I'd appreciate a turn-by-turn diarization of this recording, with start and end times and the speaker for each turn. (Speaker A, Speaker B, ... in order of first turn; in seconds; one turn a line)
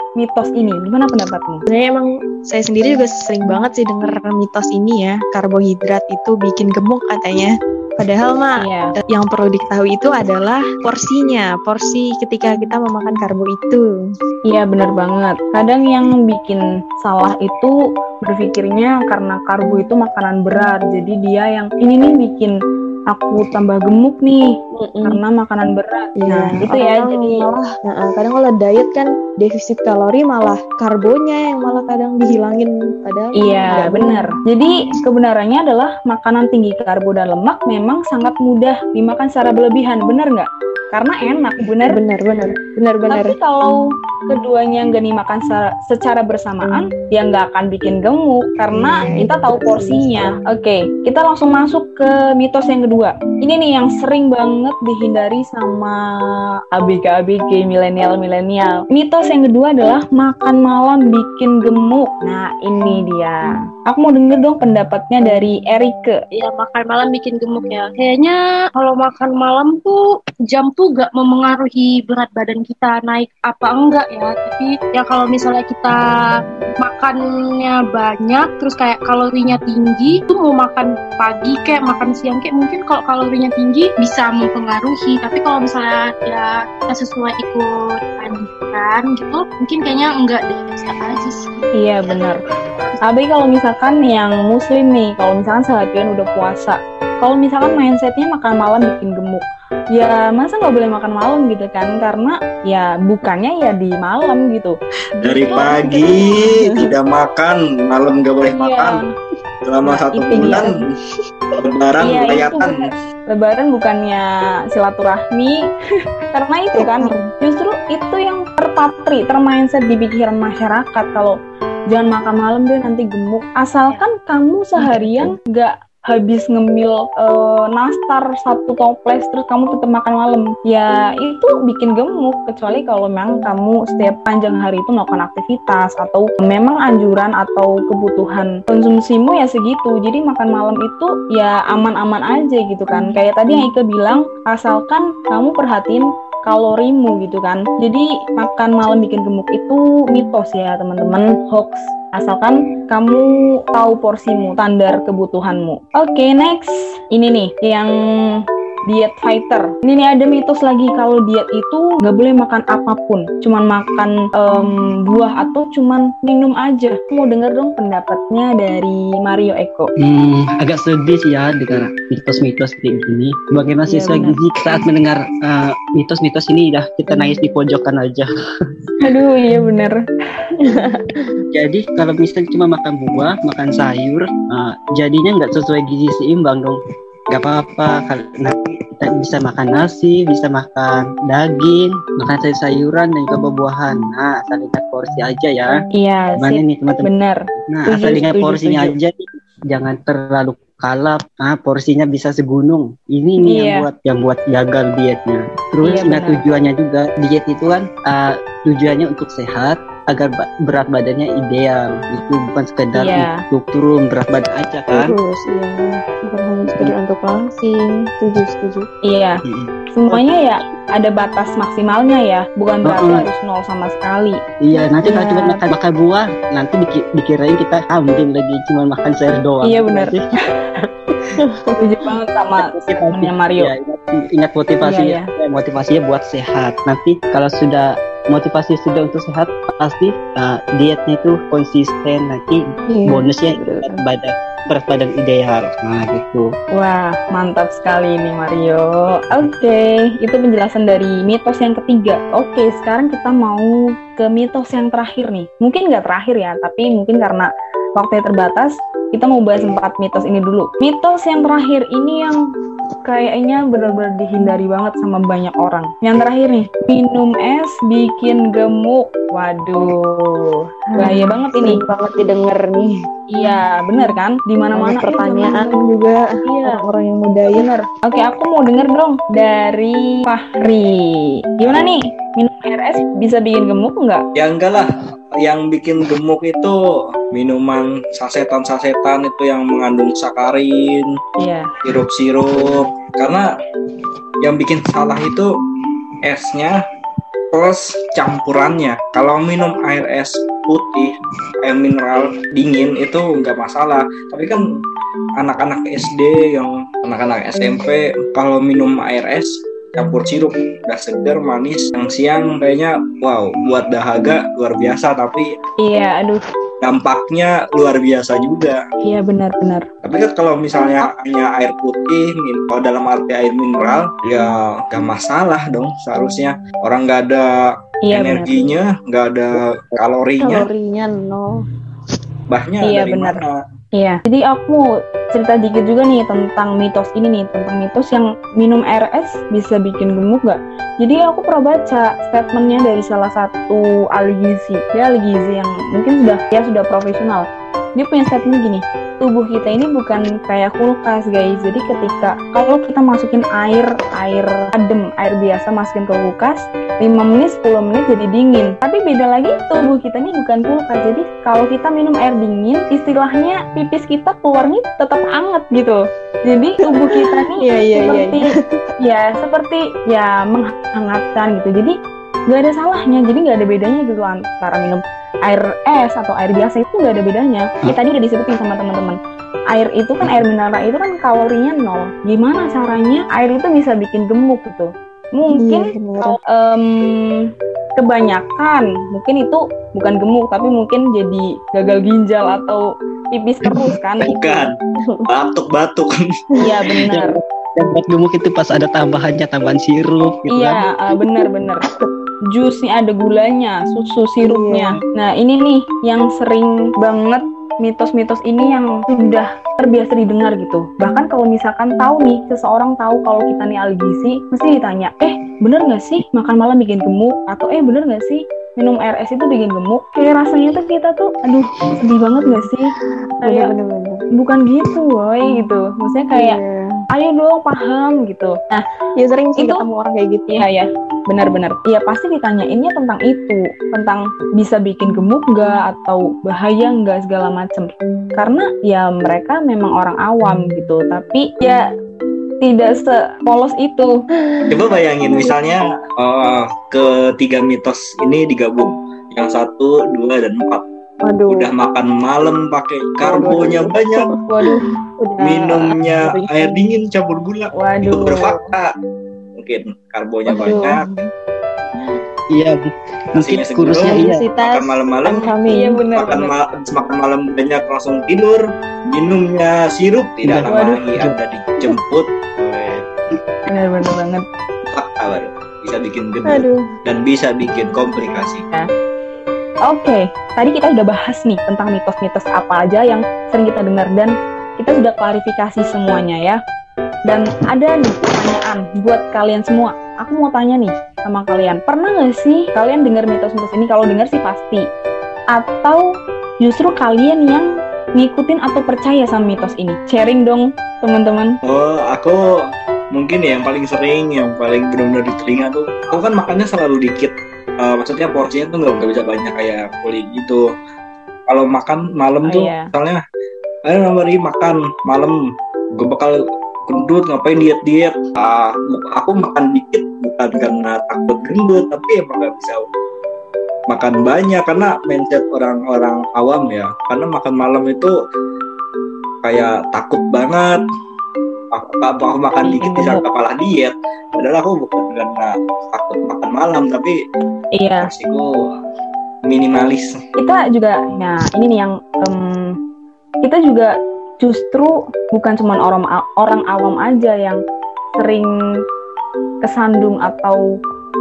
Speaker A: 0.2-1.6
Speaker B: 1.7-13.9
Speaker A: 8.6-8.9
Speaker A: 14.5-22.5
Speaker A: 23.1-24.5
Speaker B: 24.7-25.2
Speaker A: 25.0-27.5
Speaker B: 26.2-34.3
Speaker A: 33.4-42.0
Speaker B: 41.6-43.4
Speaker A: 43.1-66.2
Speaker B: 48.7-50.4
Speaker C: 66.3-70.0
Speaker C: 70.5-93.0
Speaker A: 91.7-92.4
Speaker A: 93.0-104.8
Speaker D: 105.2-109.0
Speaker B: 105.3-106.9
Speaker A: 108.5-109.1
Speaker D: 109.6-110.7
Speaker A: 109.8-110.7
Speaker B: 110.3-110.9
Speaker D: 111.6-112.8
Speaker A: 112.0-115.6
Speaker A: 116.3-121.4
Speaker B: 116.8-117.3
Speaker A: 121.9-169.9
Speaker B: 124.8-125.3
Speaker E: 170.0-178.3
Speaker A: 173.9-174.8
Speaker A: 179.0-180.0
Speaker B: 180.6-180.9
Speaker E: 181.5-186.8
Speaker E: 187.3-195.8
Speaker A: 196.0-198.9
Speaker E: 196.4-197.1
Speaker E: 197.7-215.2
Speaker A: 203.4-203.9
Speaker A: 205.8-206.4
Speaker A: 212.9-213.4
Speaker B: 214.9-218.9
Speaker A: 219.1-219.4
Speaker E: 219.4-220.2
Speaker A: 219.9-225.6
Speaker E: 222.8-223.3
Speaker E: 224.6-230.2
Speaker A: 229.6-230.2
Speaker B: 231.4-231.7
Speaker A: 231.8-233.7
Speaker E: 232.6-246.5
Speaker A: 234.8-235.3
Speaker B: 242.9-244.0
Speaker A: 246.7-262.4
Speaker A: 263.1-271.8
Speaker B: 270.9-273.0
Speaker A: 273.3-275.9
Speaker B: 274.7-277.7
Speaker A: 276.4-276.8
Speaker A: 277.5-284.2
Speaker D: 281.6-281.9
Speaker D: 284.4-286.8
Speaker D: 287.3-291.2
Speaker A: 291.4-291.7
Speaker D: 291.8-293.4
Speaker D: 294.4-295.5
Speaker D: 296.2-296.8
Speaker D: 297.5-304.6
Speaker D: 305.4-315.6
Speaker A: 315.8-316.4
Speaker D: 316.8-318.8
Speaker A: 319.0-319.9
Speaker D: 320.0-330.7
Speaker A: 328.1-328.7
Speaker B: 330.4-331.6
Speaker D: 332.5-333.6
Speaker A: 332.8-333.4
Speaker A: 333.9-372.0
Speaker B: 366.8-368.8
Speaker A: 372.5-379.2
Speaker A: 379.7-394.5
Speaker B: 385.5-386.4
Speaker D: 394.2-394.8
Speaker B: 395.0-395.3
Speaker D: 395.3-396.1
Speaker A: 396.6-397.4
Speaker E: 397.1-400.8
Speaker A: 400.5-401.8
Speaker A: 402.5-422.9
Speaker B: 404.4-405.0
Speaker B: 423.4-424.3
Speaker A: 423.4-423.7
Speaker A: 424.4-426.6
Speaker B: 426.3-426.9
Speaker A: 427.1-428.8
Speaker B: 429.2-430.7
Speaker A: 429.6-429.9
Speaker A: 430.5-441.9
Speaker A: 442.6-444.1
Speaker B: 444.5-445.6
Speaker D: 444.7-450.9
Speaker B: 451.2-451.7
Speaker D: 451.5-454.3
Speaker B: 453.2-456.9
Speaker D: 455.4-458.9
Speaker A: 457.7-458.7
Speaker D: 459.6-461.0
Speaker B: 460.5-461.2
Speaker E: 462.5-464.4
Speaker D: 463.4-473.1
Speaker B: 464.0-466.0
Speaker A: 465.7-466.6
Speaker E: 470.4-471.4
Speaker A: 473.7-474.5
Speaker D: 474.9-478.7
Speaker B: 476.4-476.9
Speaker A: 479.9-486.6
Speaker A: 487.3-494.9
Speaker A: 495.5-496.0
Speaker A: 496.6-501.6
Speaker D: 501.6-502.4
Speaker D: 503.1-510.6
Speaker D: 511.5-513.2
Speaker A: 512.4-512.9
Speaker D: 513.9-515.4
Speaker D: 516.0-522.9
Speaker D: 523.9-528.1
Speaker D: 529.4-530.8
Speaker D: 531.7-537.2
Speaker A: 532.6-533.2
Speaker A: 537.8-538.1
Speaker D: 538.0-538.5
Speaker D: 539.5-540.2
Speaker A: 540.4-542.8
Speaker A: 543.4-547.6
Speaker A: 548.2-548.5
Speaker A: 549.6-550.6